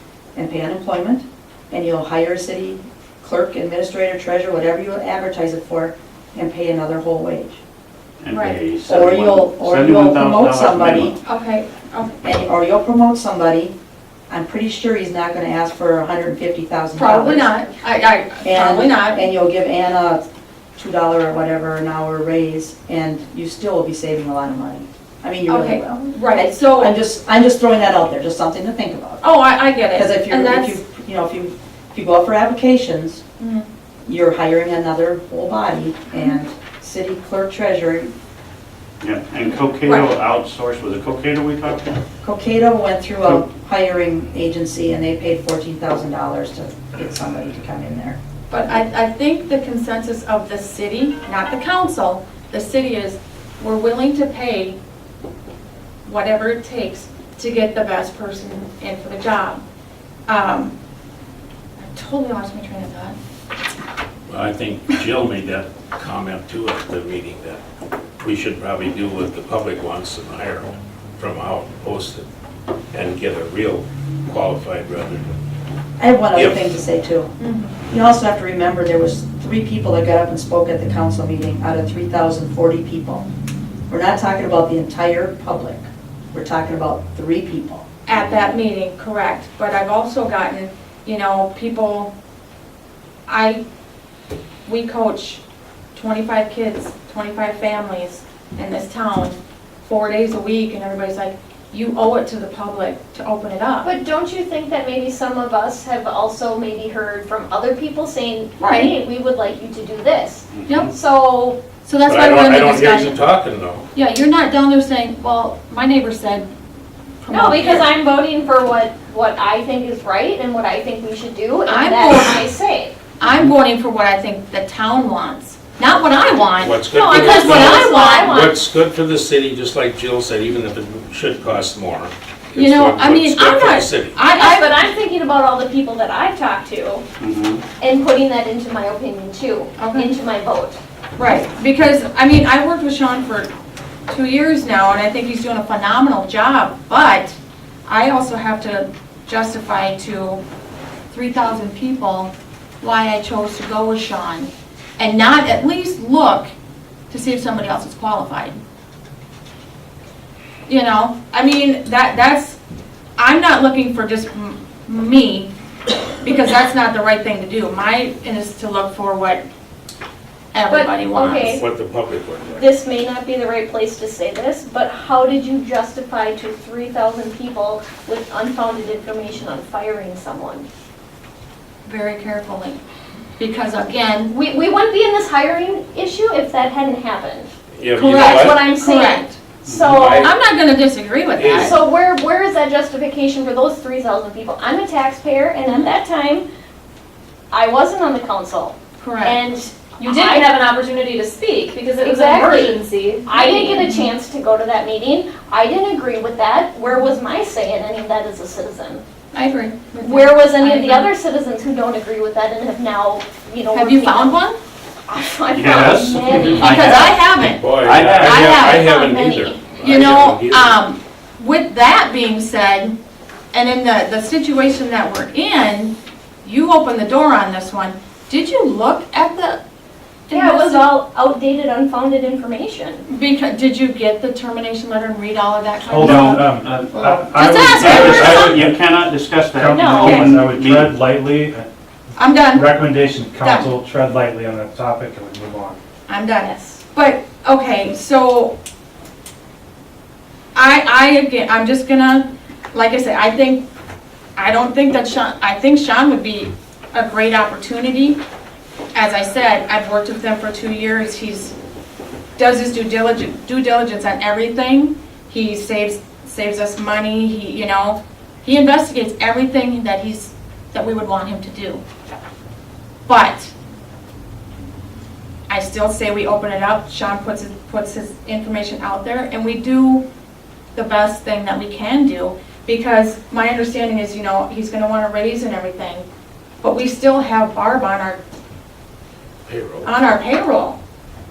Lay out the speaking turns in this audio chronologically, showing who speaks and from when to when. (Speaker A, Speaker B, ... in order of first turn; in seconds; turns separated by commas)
Speaker A: 0.3-7.6, Speaker B: 8.2-11.2, Speaker C: 8.3-8.6, Speaker A: 8.8-11.2, Speaker C: 11.2-12.1, Speaker A: 12.2-13.7, Speaker A: 14.3-17.6, Speaker C: 16.9-19.2, Speaker A: 18.4-29.2, Speaker C: 25.5-26.9, Speaker C: 29.2-30.8, Speaker A: 29.9-33.2, Speaker C: 33.4-33.7, Speaker A: 34.0-38.1, Speaker B: 39.0-42.0, Speaker A: 42.2-48.2, Speaker C: 48.5-54.8, Speaker C: 56.0-59.6, Speaker C: 60.3-60.7, Speaker C: 61.8-63.1, Speaker D: 64.3-67.6, Speaker D: 68.2-72.2, Speaker D: 72.9-75.3, Speaker A: 76.0-77.3, Speaker D: 76.3-76.7, Speaker C: 77.4-77.7, Speaker A: 77.9-83.2, Speaker A: 83.9-87.8, Speaker C: 88.1-92.1, Speaker C: 93.3-93.6, Speaker C: 94.7-95.4, Speaker C: 96.0-103.9, Speaker E: 103.8-111.6, Speaker C: 108.6-108.9, Speaker B: 110.5-110.9, Speaker C: 110.7-110.9, Speaker C: 111.8-113.2, Speaker D: 112.0-113.8, Speaker C: 113.9-116.5, Speaker C: 117.2-117.9, Speaker E: 117.3-122.9, Speaker C: 121.7-122.4, Speaker C: 123.2-128.3, Speaker D: 126.5-134.2, Speaker E: 126.9-128.6, Speaker C: 132.6-134.7, Speaker E: 134.3-137.0, Speaker B: 137.2-137.6, Speaker E: 137.8-140.8, Speaker C: 139.8-140.1, Speaker C: 141.2-143.5, Speaker C: 144.1-150.4, Speaker C: 151.1-156.5, Speaker C: 157.1-158.6, Speaker C: 160.7-162.6, Speaker C: 163.2-165.5, Speaker C: 166.2-169.4, Speaker C: 170.5-171.6, Speaker E: 170.7-171.6, Speaker D: 171.4-172.7, Speaker E: 172.6-180.7, Speaker C: 181.8-182.8, Speaker C: 183.4-184.3, Speaker E: 184.3-187.5, Speaker D: 187.8-188.7, Speaker C: 187.9-189.4, Speaker E: 188.1-190.3, Speaker D: 189.8-190.3, Speaker C: 190.2-191.7, Speaker D: 191.3-191.8, Speaker E: 191.5-196.4, Speaker E: 197.5-200.6, Speaker C: 199.0-199.4, Speaker F: 200.0-203.9, Speaker E: 202.0-209.0, Speaker C: 209.3-211.1, Speaker E: 210.0-214.4, Speaker C: 213.7-214.6, Speaker E: 215.1-217.0, Speaker B: 215.5-217.2, Speaker D: 216.3-216.6, Speaker C: 216.5-218.9, Speaker D: 217.3-220.8, Speaker B: 217.8-218.3, Speaker G: 217.9-218.4, Speaker E: 218.6-219.6, Speaker C: 219.7-222.9, Speaker C: 223.5-229.6, Speaker C: 230.3-230.9, Speaker E: 230.3-233.1, Speaker C: 233.1-236.4, Speaker G: 235.9-238.8, Speaker B: 236.0-241.0, Speaker C: 237.3-238.6, Speaker G: 239.6-241.7, Speaker E: 239.7-240.2, Speaker C: 239.9-240.4, Speaker C: 242.2-242.7, Speaker G: 242.5-245.8, Speaker C: 243.4-243.7, Speaker C: 246.1-248.6, Speaker E: 246.4-246.8, Speaker C: 250.5-253.6, Speaker C: 254.3-258.2, Speaker C: 258.9-261.5, Speaker C: 262.4-271.8, Speaker C: 273.1-273.5, Speaker C: 275.5-280.0, Speaker C: 280.7-286.1, Speaker C: 286.6-288.2, Speaker D: 289.5-289.9, Speaker C: 289.8-290.8